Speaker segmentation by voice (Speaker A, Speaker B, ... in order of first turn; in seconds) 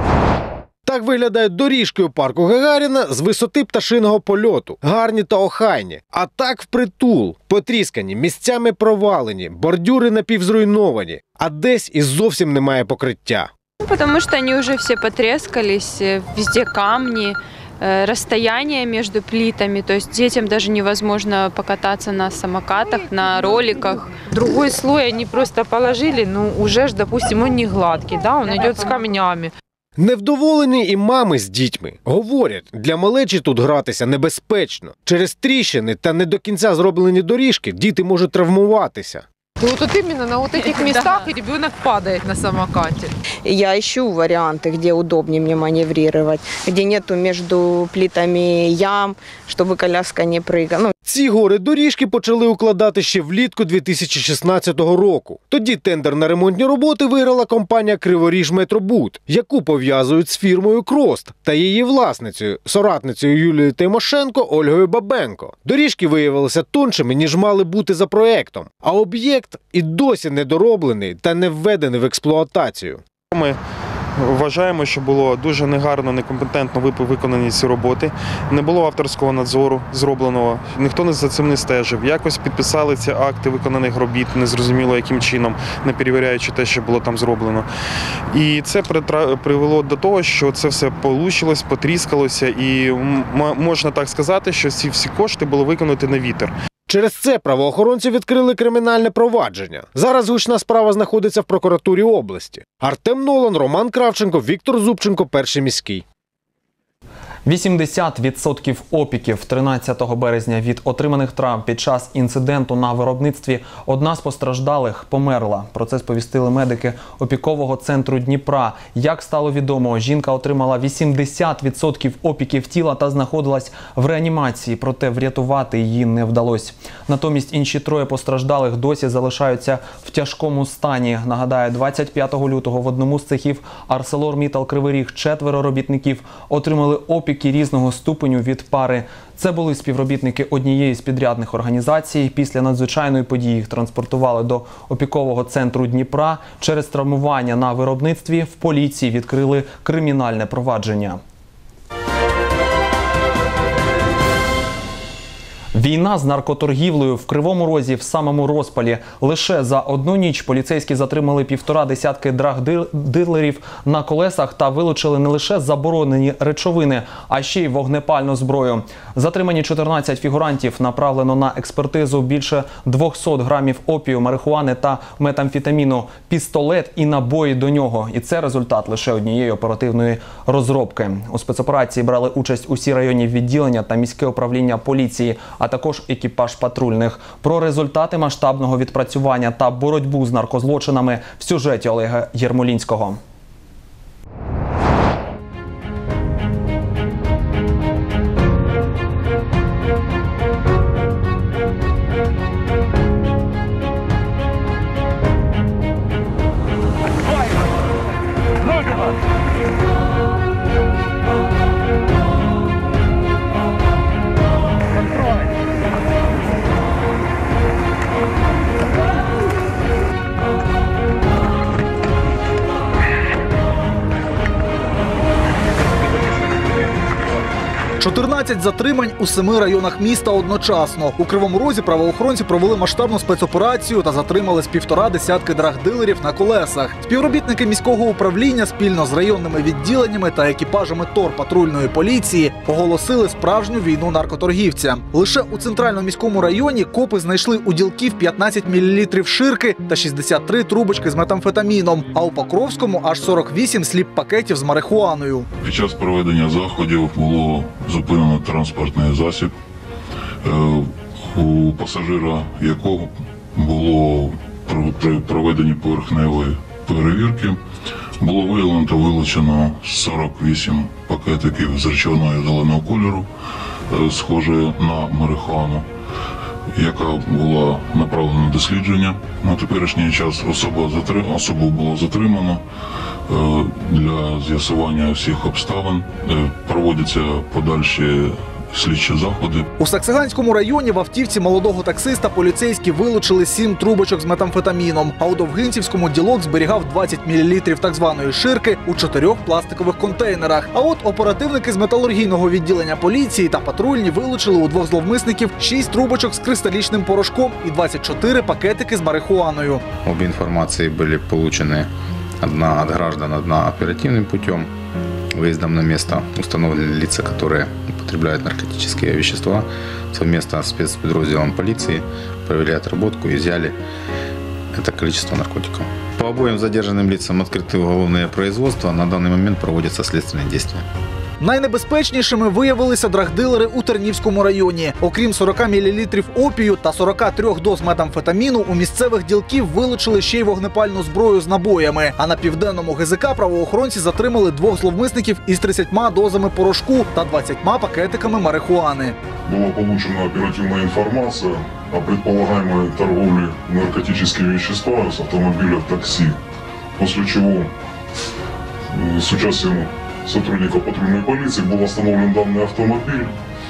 Speaker A: 0.9-13.5, 30.0-39.2, 51.0-73.0, 96.9-106.0
Speaker B: 13.8-24.0
Speaker C: 24.3-29.5, 39.6-43.1
Speaker D: 43.4-50.9
Speaker E: 74.3-87.6, 88.3-96.5
Speaker F: 107.5-151.2, 155.7-193.2
Speaker G: 228.0-255.4, 289.8-309.8, 331.4-349.1
Speaker H: 255.6-259.5, 260.4-267.6, 268.2-273.3, 273.9-275.8, 276.8-282.6, 283.3-289.6, 349.5-356.4, 357.0-357.7, 358.9-363.3
Speaker I: 310.0-311.9, 312.4-314.7, 315.4-323.8, 324.7-330.9